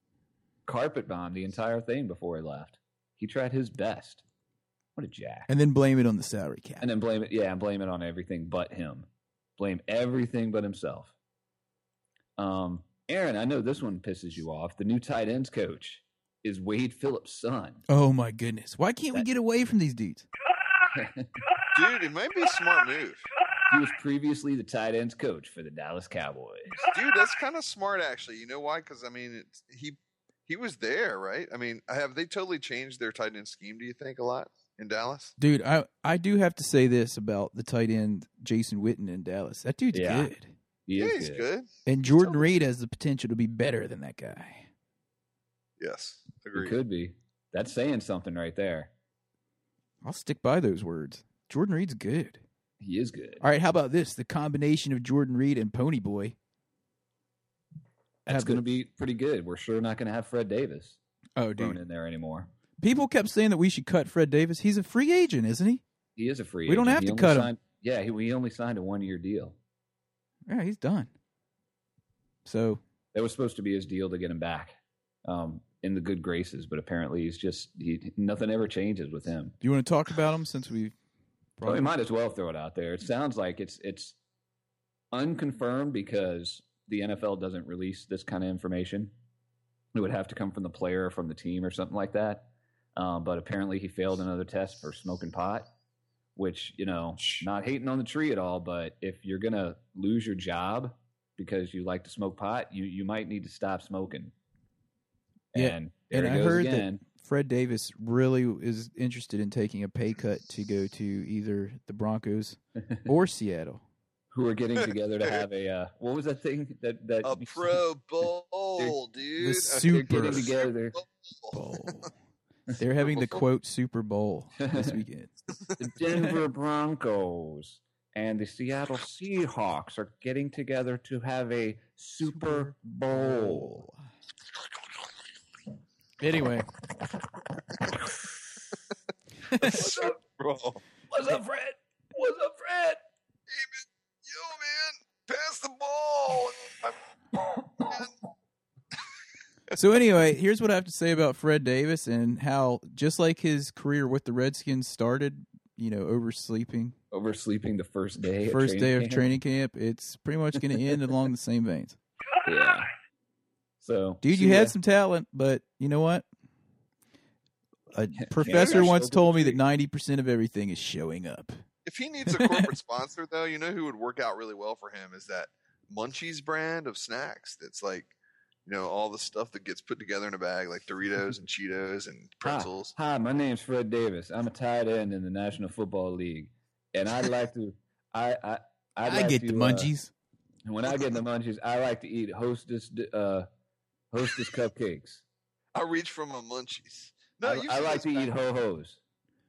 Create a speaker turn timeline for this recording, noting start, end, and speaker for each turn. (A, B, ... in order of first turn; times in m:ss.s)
0:00.6-0:04.2 A
0:05.0-0:05.5 A
0:05.5-0:06.9 B
0:06.8-0:11.1 A
0:12.4-0:17.8 A
0:17.9-0:20.3 B
0:20.9-0:21.4 A
0:21.7-0:23.3 C
0:23.7-0:26.9 A
0:26.8-0:35.4 C
0:35.4-0:40.5 B
0:39.9-0:40.3 A
0:40.9-0:41.5 A
0:41.0-0:42.6 C
0:41.9-0:44.7 B
0:45.8-0:46.8 C
0:46.5-0:48.9 A
0:50.0-0:52.4 B
0:52.8-0:53.4 A
0:53.4-0:56.4 B
0:58.3-0:58.6 B
0:58.3-1:01.0 A
1:01.4-1:01.8 B
1:01.6-1:02.5 A
1:02.8-1:05.8 B
1:06.2-1:09.6 A
1:06.7-1:07.5 B
1:10.5-1:11.1 B
1:12.4-1:12.8 B
1:13.1-1:19.6 A
1:19.6-1:20.9 B
1:21.6-1:21.9 B
1:21.6-1:24.2 A
1:25.1-1:29.1 A
1:29.9-1:35.7 A
1:36.4-1:44.3 A
1:45.5-1:47.0 A
1:45.6-1:53.8 B
1:54.3-1:57.8 A
1:57.2-2:01.6 C
1:59.4-2:00.5 B
1:59.8-2:01.0 A
2:01.5-2:02.1 B
2:02.8-2:05.3 B
2:03.0-2:03.4 C
2:04.6-2:05.0 A
2:05.8-2:13.8 A
2:12.3-2:14.0 B
2:16.2-2:16.7 B
2:19.5-2:19.8 B
2:19.6-2:20.8 C
2:19.6-2:20.2 A
2:21.1-2:23.0 A
2:23.5-2:27.0 C
2:27.8-2:28.2 C
2:29.8-2:37.0 B
2:37.1-2:39.3 A
2:38.5-2:42.0 B
2:42.4-2:42.9 A
2:43.8-2:44.8 A
2:44.2-2:46.2 B
2:47.9-2:51.6 B
2:48.2-2:49.6 A
2:48.5-2:48.8 C
2:51.9-2:58.1 C
2:52.3-2:52.7 B
2:58.7-3:03.0 C
3:02.4-3:09.9 A
3:09.0-3:10.1 B
3:10.6-3:13.5 A
3:14.1-3:15.2 A
3:15.7-3:18.3 C
3:17.4-3:19.0 A